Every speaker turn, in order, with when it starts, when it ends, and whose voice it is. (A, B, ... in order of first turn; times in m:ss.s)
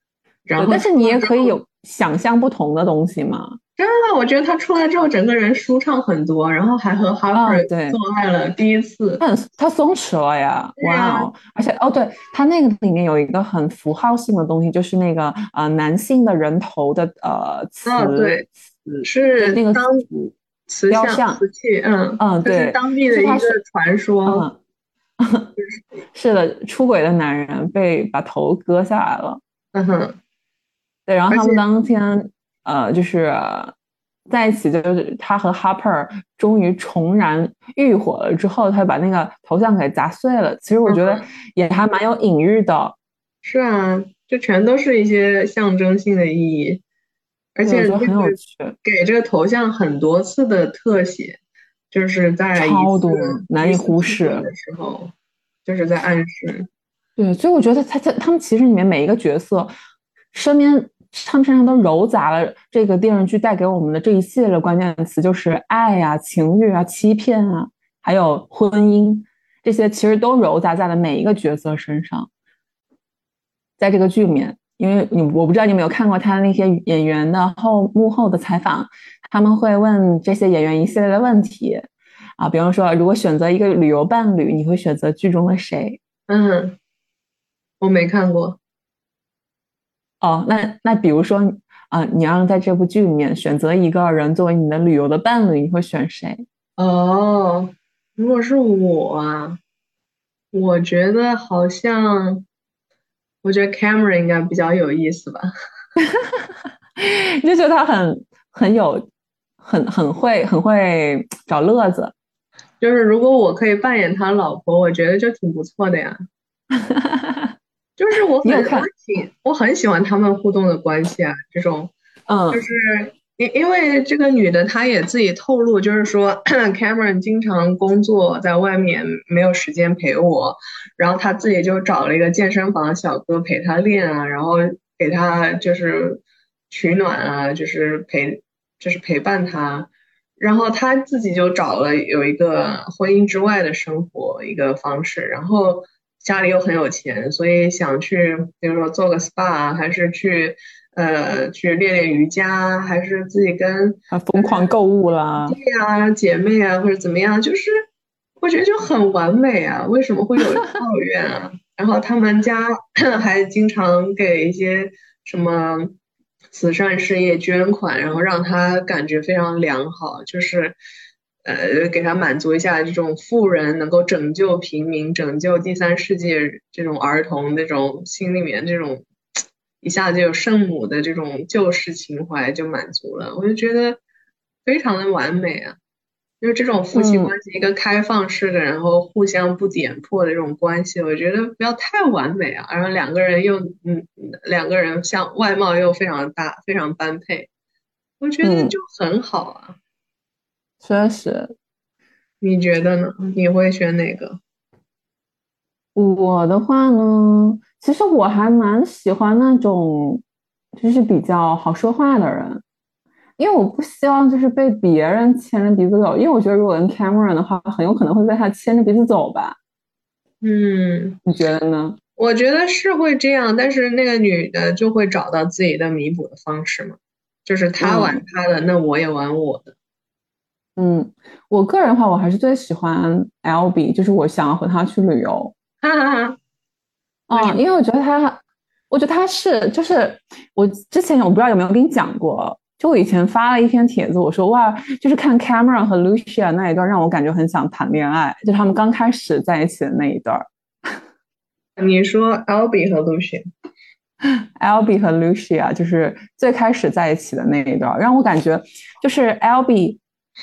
0:00.4-0:01.6 A
0:00.6-0:03.6 B
0:03.8-0:09.2 A
0:07.3-0:08.0 B
0:09.2-0:18.5 B
0:10.8-0:11.3 A
0:17.9-0:18.4 A
0:19.0-0:20.1 A
0:19.4-0:20.3 B
0:20.7-0:24.4 A
0:20.9-0:21.4 B
0:22.2-0:23.6 B
0:24.3-0:24.6 B
0:25.2-0:25.5 B
0:26.1-0:29.4 B
0:29.7-0:30.2 A
0:31.1-0:33.7 B
0:31.3-0:31.6 A
0:34.3-0:43.0 B
0:40.9-0:41.2 A
0:43.4-0:46.8 A
0:47.6-0:51.4 A
0:47.6-0:48.8 B
0:51.9-0:55.1 A
0:52.6-0:54.5 B
0:55.7-0:56.7 A
0:57.2-0:59.7 B
1:00.3-1:12.3 B
1:13.8-1:26.0 B
1:26.3-1:26.8 A
1:27.8-1:28.6 A
1:30.2-1:36.4 B
1:36.8-1:39.6 A
1:40.5-1:42.4 A
1:43.4-1:45.5 A
1:46.1-1:46.4 B
1:47.0-1:49.1 B
1:49.6-1:52.1 B
1:52.8-1:56.2 A
1:56.8-1:57.5 B
1:58.0-2:01.9 A
1:58.4-1:58.9 B
2:02.3-2:02.6 B
2:02.5-2:34.7 A
2:34.1-2:35.6 B
2:35.4-2:37.8 A
2:38.4-2:46.0 A
2:46.5-2:50.8 A
2:51.4-2:59.0 A
2:59.8-3:04.0 A
3:04.6-3:05.8 A
3:06.4-3:17.5 A
3:06.9-3:07.3 B
3:18.2-3:19.8 A
3:18.4-3:18.8 B
3:20.8-3:21.5 B
3:22.4-3:24.4 A
3:26.0-3:30.2 B
3:30.8-3:32.6 B
3:33.4-3:39.6 B
3:40.4-3:41.2 A
3:41.2-3:42.0 B
3:42.2-3:49.7 A
3:47.8-3:48.2 B
3:50.8-3:55.5 B
3:55.8-3:56.4 A
3:57.3-4:11.0 B
3:57.3-3:57.6 A
4:11.8-4:13.4 A
4:14.6-4:20.0 B